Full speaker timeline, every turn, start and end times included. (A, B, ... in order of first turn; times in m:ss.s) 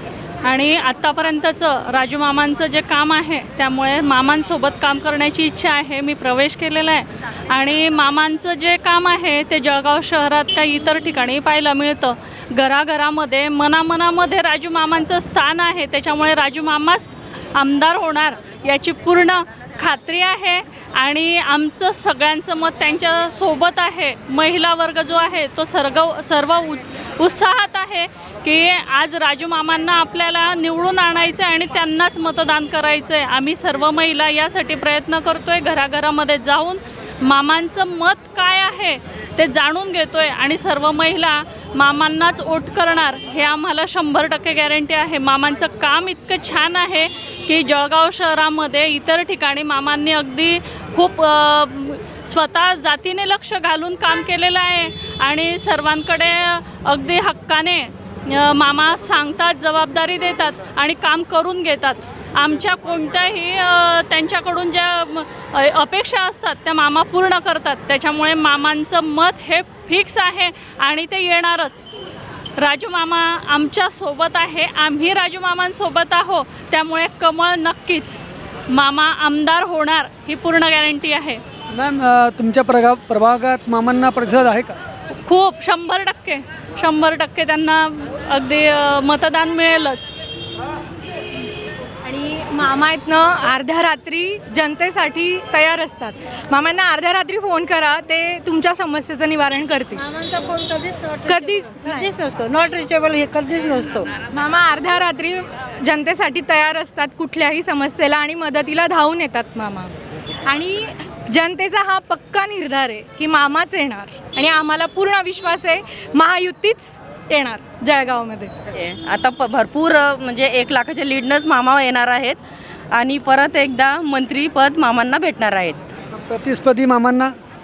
0:00.4-1:11.9 A
1:12.6-1:18.2 A
1:18.7-1:21.4 A
1:21.7-1:24.8 B
1:25.2-1:30.1 A
1:32.0-1:40.0 C
1:40.0-1:44.1 D
1:41.3-1:42.1 C
1:44.3-1:58.5 C
1:58.7-2:05.9 E
2:06.1-2:07.4 B